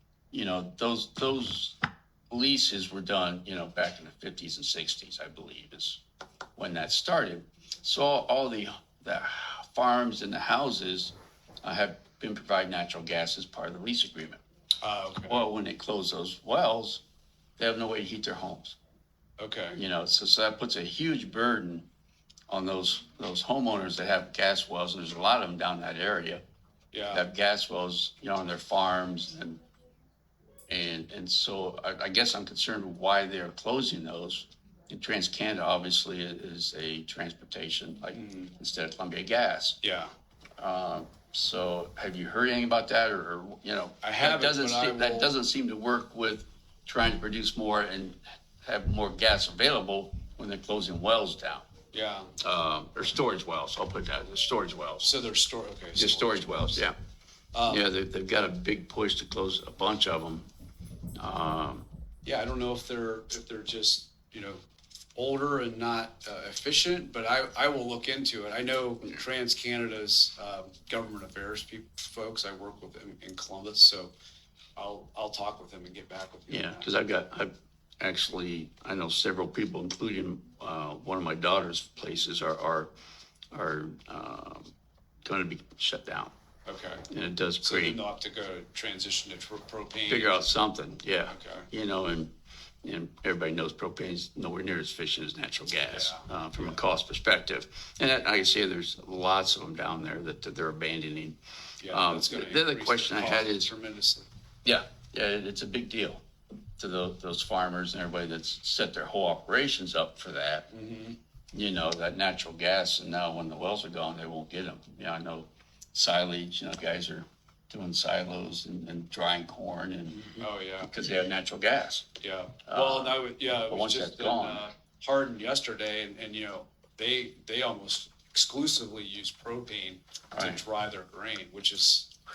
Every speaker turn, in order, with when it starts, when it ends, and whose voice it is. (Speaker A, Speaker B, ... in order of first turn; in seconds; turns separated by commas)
Speaker A: 0.3-1.8, Speaker A: 2.3-6.0, Speaker A: 6.6-14.4, Speaker B: 14.8-15.4, Speaker A: 15.3-17.0, Speaker A: 17.6-18.8, Speaker B: 19.4-19.8, Speaker A: 19.8-21.9, Speaker A: 22.5-26.4, Speaker B: 26.9-27.2, Speaker A: 27.1-29.6, Speaker A: 30.7-39.8, Speaker B: 38.1-38.5, Speaker B: 39.8-40.1, Speaker A: 40.6-51.7, Speaker B: 44.0-45.3, Speaker B: 51.9-52.3, Speaker A: 52.4-55.1, Speaker B: 55.0-56.9, Speaker A: 56.0-56.9, Speaker B: 57.5-57.8, Speaker A: 57.7-60.5, Speaker A: 61.2-61.9, Speaker B: 62.2-64.6, Speaker B: 65.2-74.1, Speaker B: 74.8-76.9, Speaker A: 76.5-82.9, Speaker A: 83.5-84.7, Speaker A: 85.2-86.3, Speaker B: 86.7-87.0, Speaker A: 87.1-88.0, Speaker B: 87.6-90.4, Speaker A: 90.1-92.3, Speaker B: 91.3-91.7, Speaker A: 92.8-103.7, Speaker B: 95.9-96.8, Speaker B: 101.8-104.3, Speaker A: 104.7-106.2, Speaker A: 106.8-110.7, Speaker B: 110.7-111.2, Speaker A: 111.5-122.1, Speaker B: 120.3-120.9, Speaker B: 122.2-132.1, Speaker A: 122.7-124.6, Speaker A: 130.3-130.6